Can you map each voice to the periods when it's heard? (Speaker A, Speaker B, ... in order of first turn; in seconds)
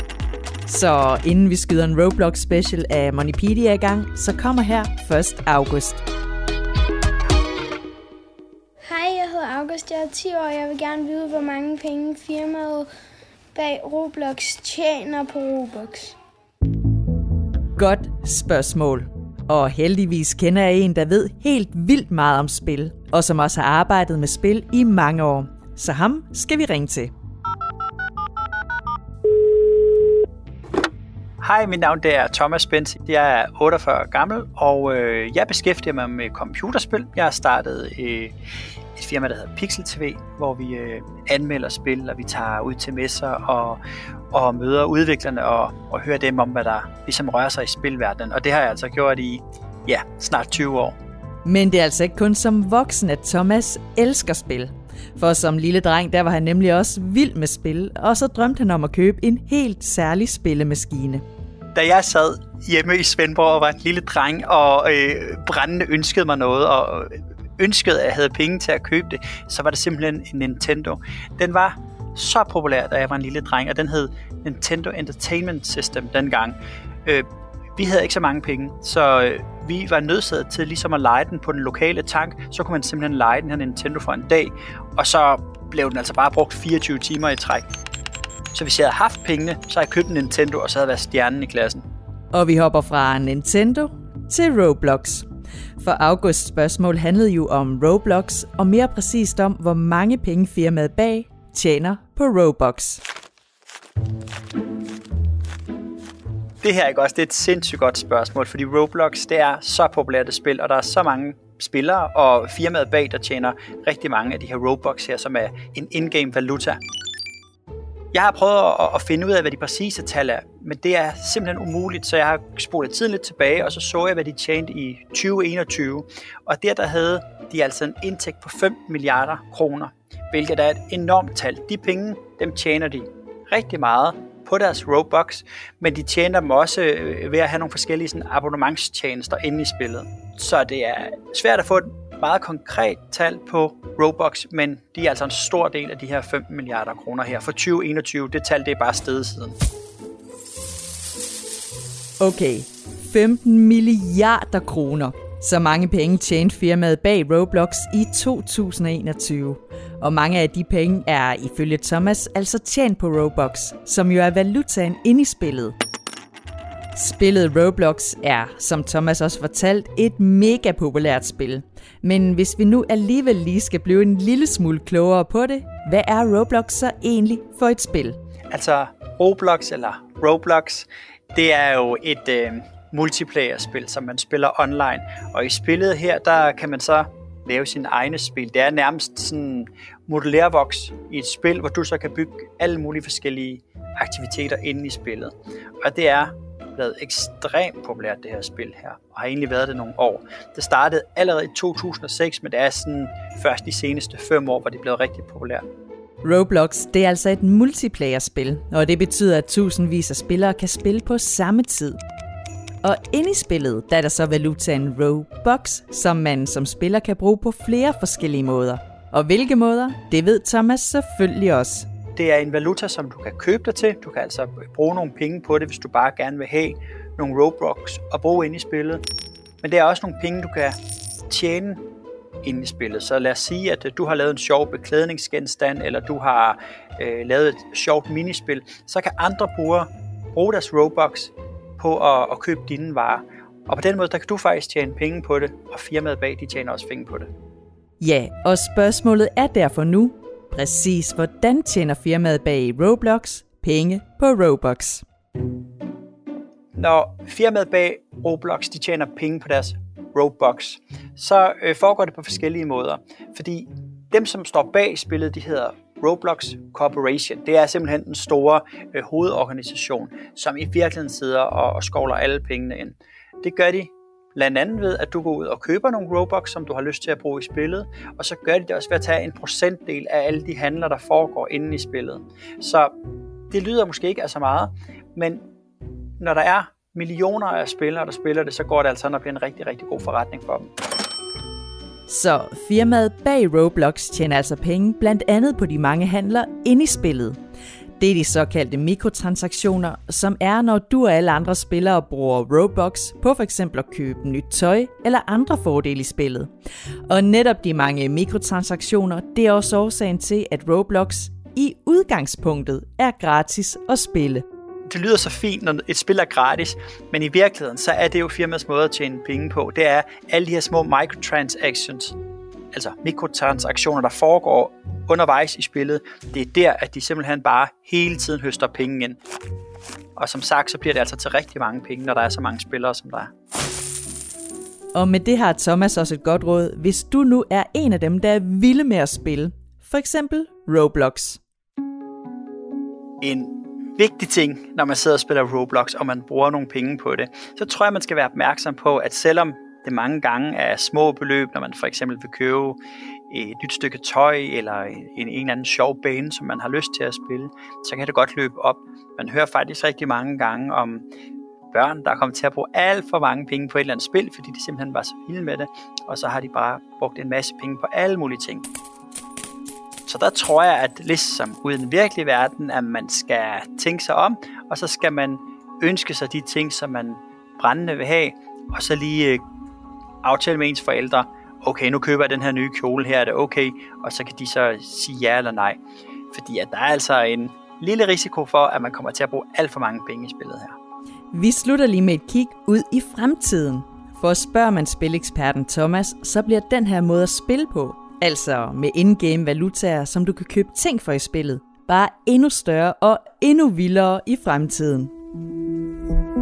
Speaker A: 0.7-6.0, 17.8-27.1, 51.5-61.2, 92.3-95.3, 95.8-103.0, 152.2-165.8, 166.9-178.2, 206.2-212.0, 212.8-221.9, 248.0-255.0, 292.1-297.4, 298.0-306.5, 307.1-314.4, 334.9-341.4, 391.3-405.1
Speaker B: 8.9-12.9, 13.6-16.2
Speaker C: 31.4-38.4, 39.0-43.8, 44.3-51.0, 61.8-87.7, 88.5-91.8, 106.6-116.8, 118.1-149.6, 178.5-205.6, 222.2-229.0, 229.6-230.8, 231.3-231.8, 232.4-247.3, 256.8-282.9, 283.5-285.4, 286.2-290.7, 314.9-322.2, 322.7-329.2, 330.2-333.3, 343.2-361.1, 361.7-368.7, 370.1-379.4, 380.2-385.8, 386.3-390.8